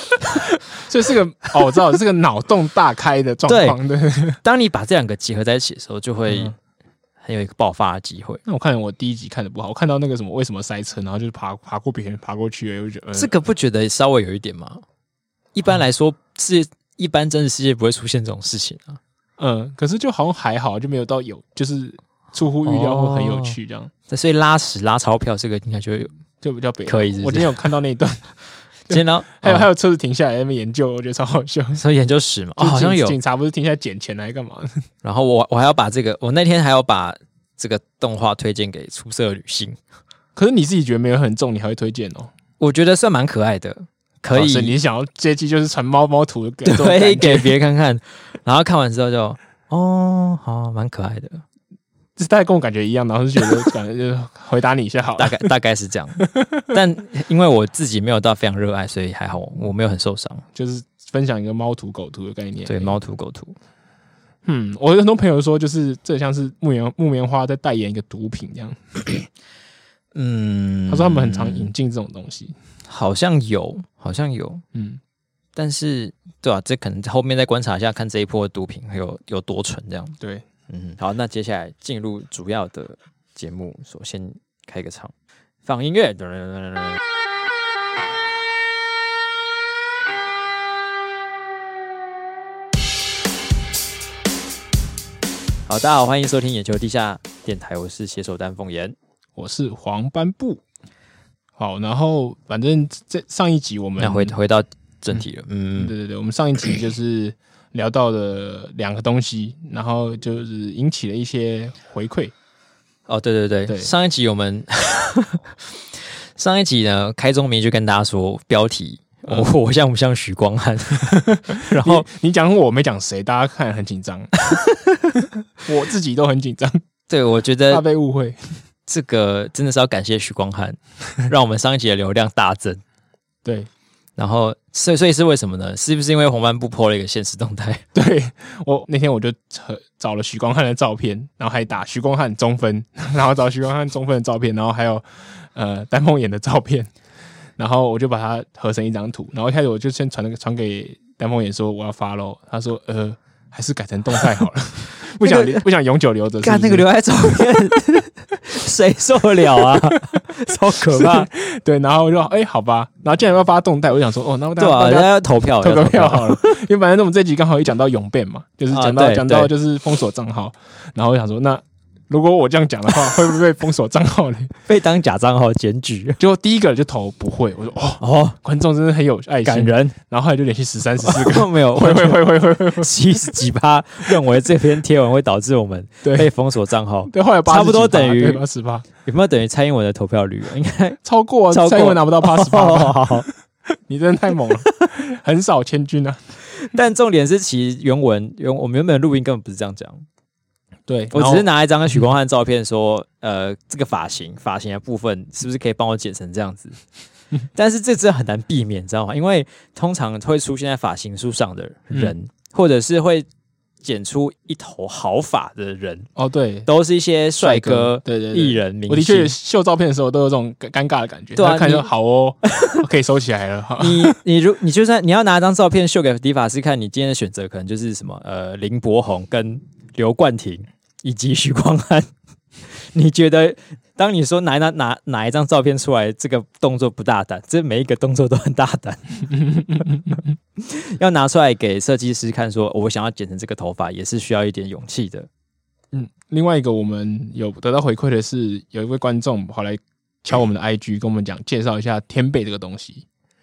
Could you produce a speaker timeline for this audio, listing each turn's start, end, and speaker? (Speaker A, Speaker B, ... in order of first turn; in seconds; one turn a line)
Speaker A: 0.8-4.4
Speaker B: 3.5-3.8
Speaker B: 4.4-6.5
Speaker A: 6.3-6.5
Speaker B: 7.2-8.4
Speaker A: 8.4-13.3
Speaker B: 13.2-14.8
Speaker B: 15.5-19.0
Speaker A: 19.4-23.9
Speaker B: 22.6-23.6
Speaker B: 24.1-26.1
Speaker A: 26.4-28.3
Speaker B: 26.9-27.6
Speaker A: 28.9-31.8
Speaker B: 28.9-29.7
Speaker B: 31.8-33.2
Speaker A: 32.6-34.8
Speaker B: 35.0-39.8
Speaker A: 40.4-42.3
Speaker B: 42.6-44.8
Speaker A: 44.3-47.5
Speaker B: 46.6-51.4
Speaker A: 52.2-55.5
Speaker B: 55.2-60.5
Speaker A: 56.2-56.7
Speaker A: 60.5-63.0
Speaker B: 62.7-63.6
Speaker A: 64.5-69.3
Speaker B: 70.1-71.7
Speaker A: 70.9-72.5
Speaker B: 72.9-74.6
Speaker A: 74.7-75.0
Speaker B: 75.6-80.2
Speaker A: 80.2-80.5
Speaker B: 80.7-85.1
Speaker B: 85.6-87.0
Speaker B: 95.7-99.0
Speaker A: 99.4-100.6
Speaker A: 101.6-104.3
Speaker B: 104.0-105.9
Speaker A: 105.8-112.3
Speaker B: 113.1-122.1
Speaker A: 119.3-119.5
Speaker A: 121.0-124.4
Speaker B: 124.5-125.2
Speaker A: 125.6-126.8
Speaker B: 127.1-127.8
Speaker A: 127.7-128.4
Speaker B: 128.9-132.8
Speaker B: 134.2-137.8
Speaker A: 137.9-146.9
Speaker A: 147.6-156.9
Speaker B: 155.2-155.6
Speaker B: 156.4-161.3
Speaker A: 160.9-165.1
Speaker B: 164.6-166.6
Speaker A: 165.6-174.5
Speaker B: 168.7-169.5
Speaker B: 174.7-176.2
Speaker A: 176.2-182.9
Speaker B: 178.0-178.4
Speaker B: 179.4-180.0
Speaker B: 181.0-188.4
Speaker A: 186.0-186.3
Speaker A: 187.1-188.9
Speaker B: 189.0-191.0
Speaker A: 191.0-193.3
Speaker B: 191.5-193.3
Speaker A: 193.9-196.2
Speaker B: 196.6-200.0
Speaker A: 200.9-201.5
Speaker B: 201.1-206.8
Speaker B: 207.5-213.3
Speaker B: 213.8-216.1
Speaker A: 216.2-216.7
Speaker B: 216.7-219.3
Speaker A: 217.4-224.2
Speaker B: 221.4-221.9
Speaker B: 222.4-222.8
Speaker B: 223.8-232.1
Speaker B: 232.6-239.3
Speaker A: 239.3-240.3
Speaker B: 240.6-245.3
Speaker A: 245.9-253.1